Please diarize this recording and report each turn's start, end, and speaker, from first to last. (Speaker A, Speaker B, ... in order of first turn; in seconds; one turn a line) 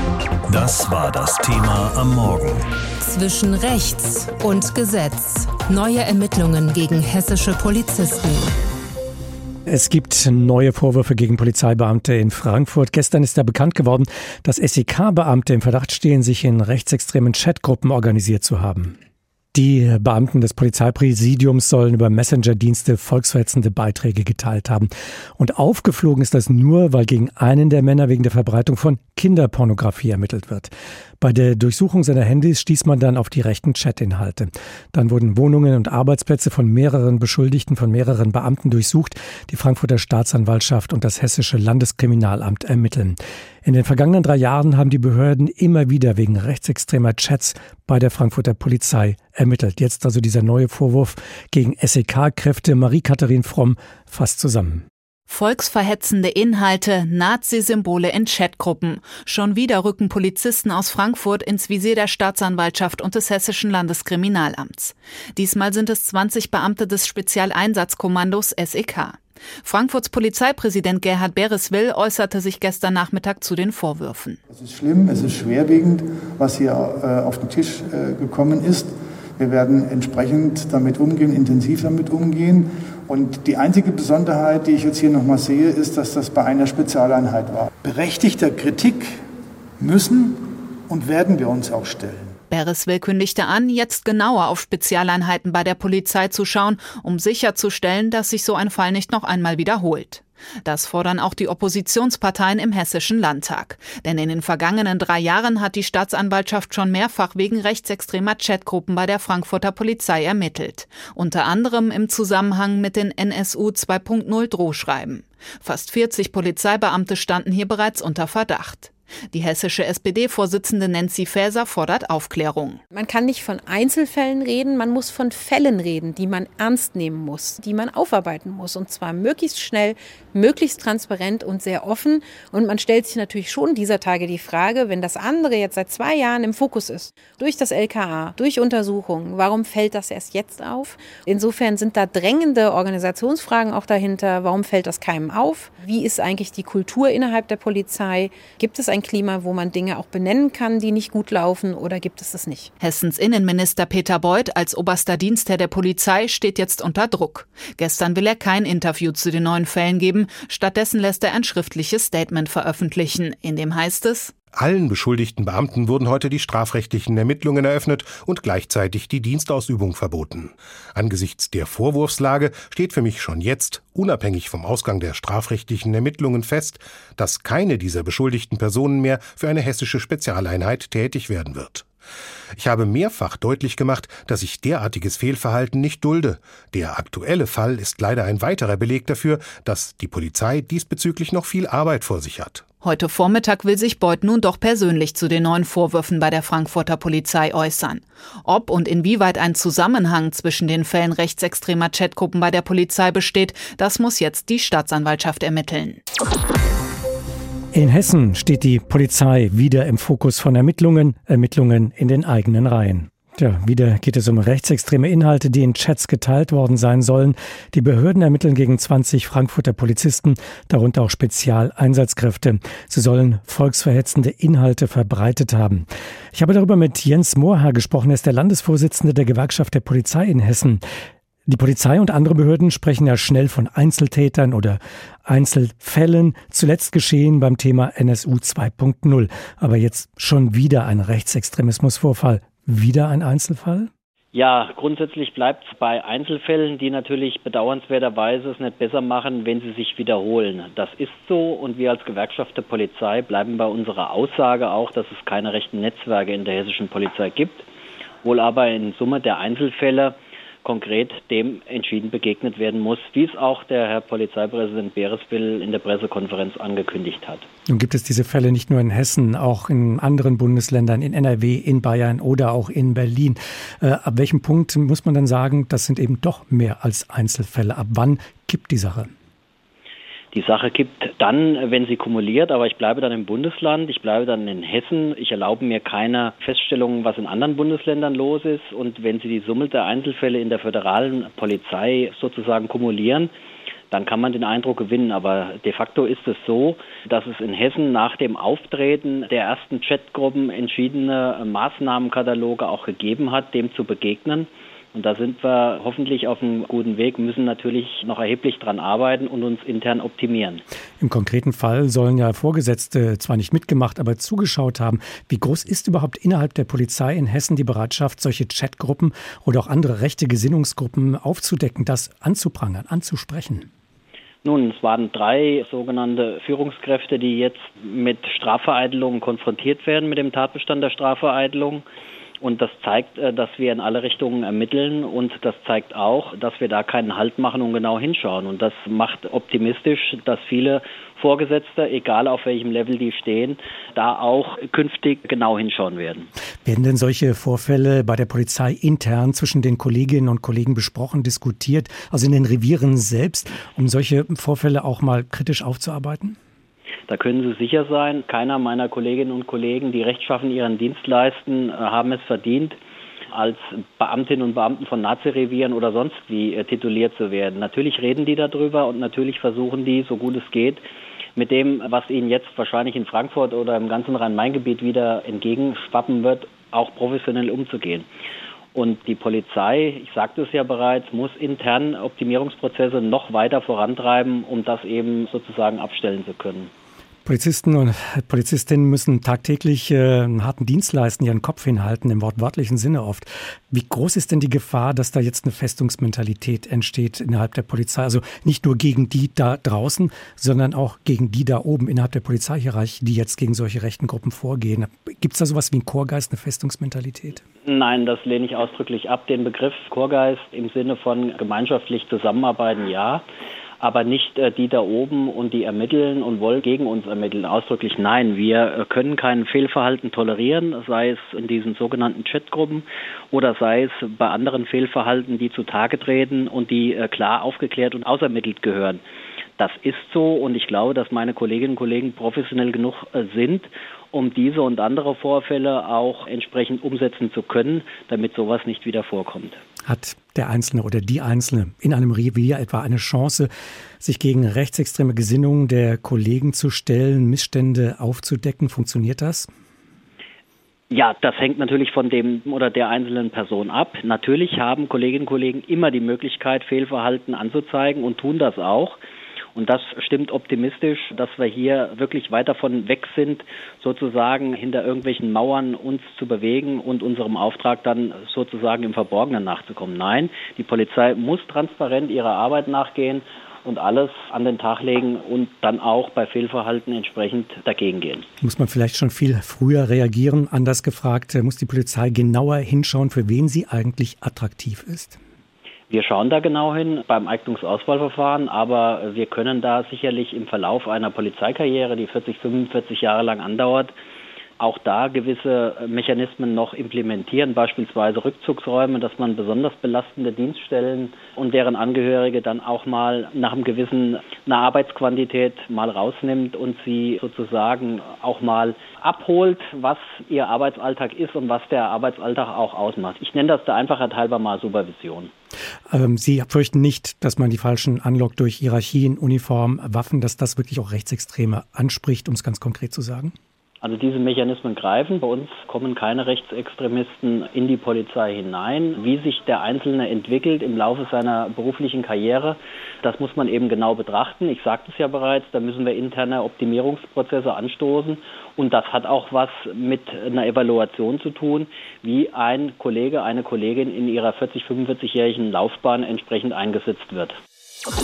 Speaker A: 0.5-2.7
Speaker B: 3.0-8.5
Speaker C: 9.7-19.0
Speaker C: 19.5-54.9
Speaker D: 55.3-74.4
Speaker E: 74.5-89.1
Speaker E: 89.8-90.4
Speaker E: 90.9-92.3
Speaker D: 92.5-122.8
Speaker F: 122.9-152.7
Speaker D: 152.8-164.3
Speaker G: 164.5-181.9
Speaker G: 182.6-192.7
Speaker D: 192.8-206.0
Speaker C: 207.7-230.8
Speaker C: 231.5-243.9
Speaker H: 244.3-257.7
Speaker H: 258.2-267.5
Speaker C: 267.7-279.1
Speaker H: 280.3-293.3
Speaker H: 293.9-310.6
Speaker C: 311.0-323.7
Speaker H: 324.4-331.8
Speaker H: 332.4-346.3
Speaker C: 346.6-356.4
Speaker H: 357.1-362.8
Speaker H: 363.3-370.8
Speaker H: 371.4-378.1
Speaker H: 378.7-386.7
Speaker C: 387.2-407.4
Speaker H: 407.6-413.2
Speaker H: 413.8-429.0
Speaker H: 429.6-439.6
Speaker C: 439.9-443.5
Speaker C: 444.0-449.5
Speaker H: 450.9-459.0
Speaker H: 459.6-478.3
Speaker C: 478.4-485.2
Speaker H: 485.9-493.9
Speaker H: 494.6-515.3
Speaker C: 515.9-523.3
Speaker H: 523.8-547.4